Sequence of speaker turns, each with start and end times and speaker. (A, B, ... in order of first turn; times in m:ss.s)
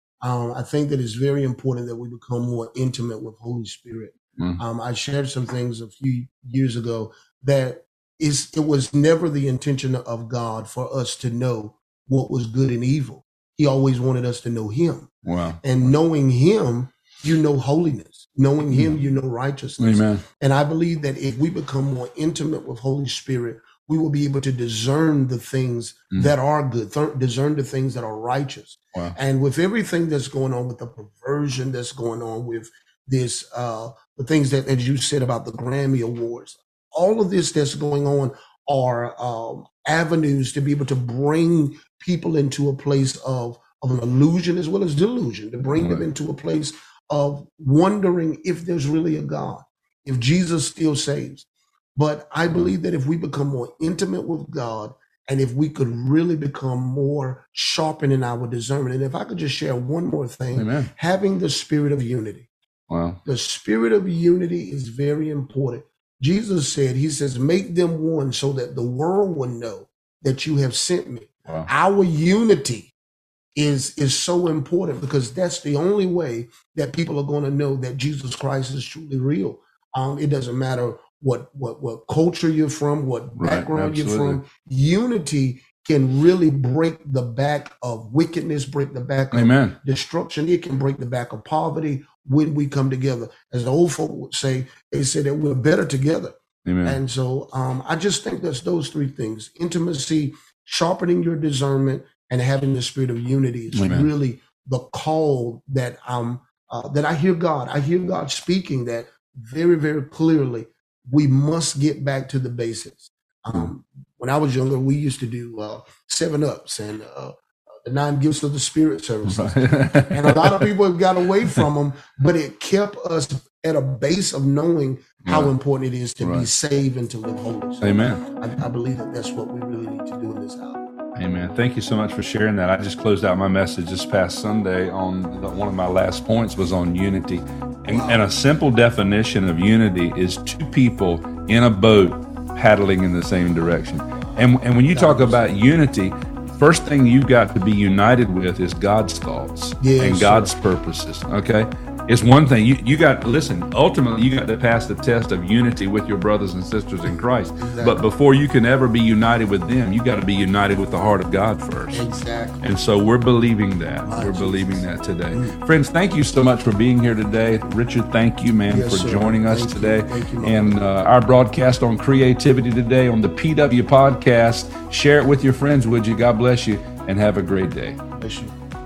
0:00.2-1:02.5 A
0:15.2-0:15.6 B
0:18.7-0:19.0 B
0:19.8-0:20.2 B
1:00.5-1:00.9 B
1:02.9-1:03.2 B
1:03.2-1:12.9 A
1:13.6-2:10.8 A
1:23.4-1:24.4 B
1:29.3-1:29.8 B
1:36.6-1:37.0 B
1:43.7-1:44.1 B
1:59.3-2:00.7 B
2:05.2-2:05.5 B
2:06.2-2:06.5 B
2:07.8-2:08.2 B
2:11.1-2:42.0 B
2:17.9-2:18.2 A
2:24.9-2:25.5 A
2:29.8-2:30.5 A
2:37.6-2:38.0 A
2:41.9-2:42.6 A
2:42.6-2:58.0 B
2:44.0-2:45.6 A
2:48.7-2:50.9 A
2:58.2-2:58.5 A